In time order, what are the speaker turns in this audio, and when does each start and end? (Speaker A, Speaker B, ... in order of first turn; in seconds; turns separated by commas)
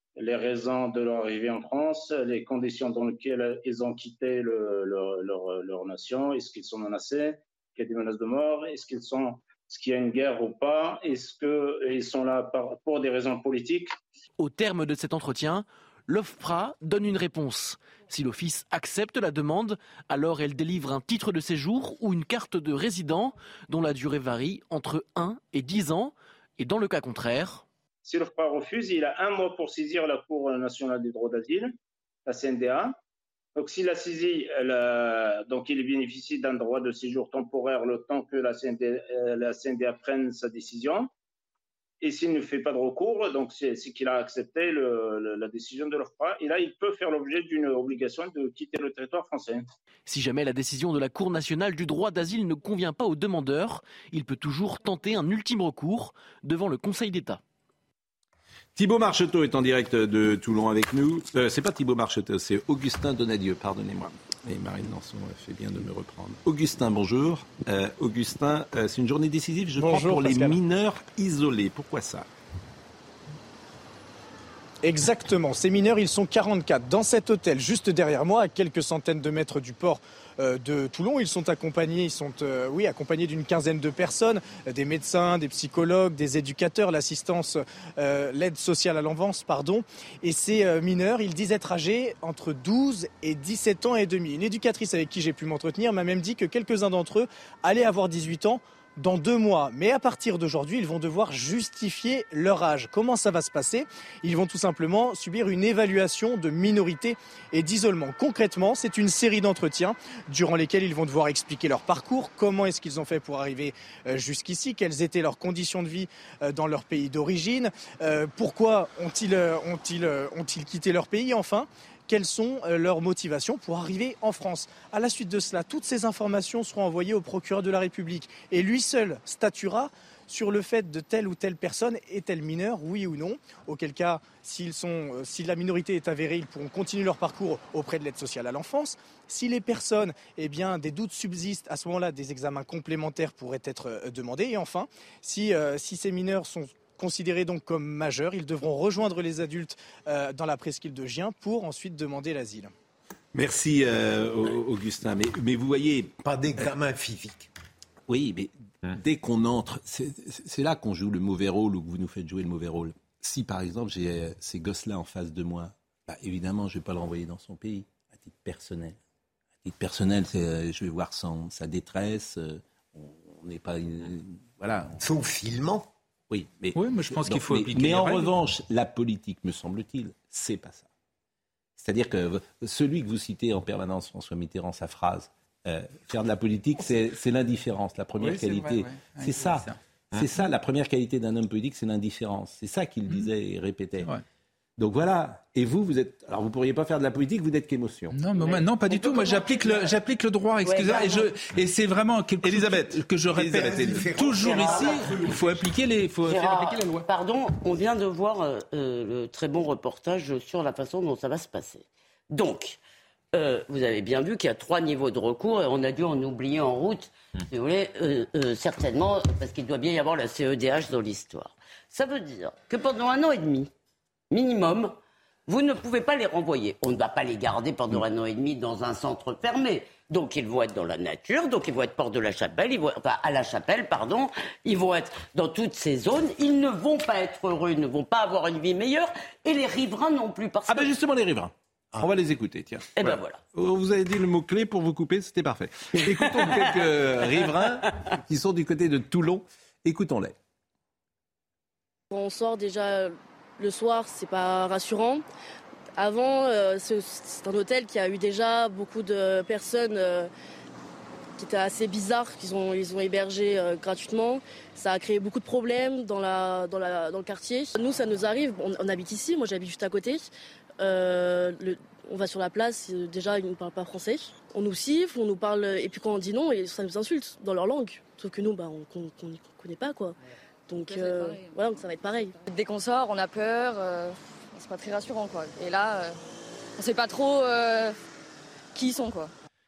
Speaker A: 0.2-14.0, Speaker B: 14.4-27.6, Speaker A: 28.1-31.7, Speaker A: 32.3-33.0, Speaker A: 33.6-41.1, Speaker A: 42.0-49.7, Speaker B: 50.1-57.4, Speaker C: 58.8-72.3, Speaker D: 69.8-70.6, Speaker D: 74.8-152.7, Speaker C: 153.3-156.1, Speaker E: 156.2-157.5, Speaker C: 158.1-169.0, Speaker C: 169.6-175.0, Speaker E: 175.0-175.9, Speaker C: 176.3-180.9, Speaker F: 176.8-178.3, Speaker C: 181.8-194.1, Speaker F: 188.2-189.8, Speaker C: 194.8-198.2, Speaker F: 198.1-207.1, Speaker G: 198.3-199.9, Speaker G: 200.6-201.3, Speaker C: 202.4-204.1, Speaker E: 203.4-205.7, Speaker G: 204.4-205.0, Speaker G: 206.2-212.8, Speaker G: 213.3-223.7, Speaker G: 224.3-224.9, Speaker G: 225.5-240.9, Speaker C: 240.7-250.3, Speaker G: 243.0-243.4, Speaker G: 246.0-247.7, Speaker H: 252.1-255.2, Speaker H: 256.0-260.3, Speaker H: 261.4-270.3, Speaker H: 270.8-280.2, Speaker H: 280.7-282.4, Speaker I: 280.8-281.6, Speaker I: 282.4-286.1, Speaker I: 286.8-287.9, Speaker I: 288.7-289.3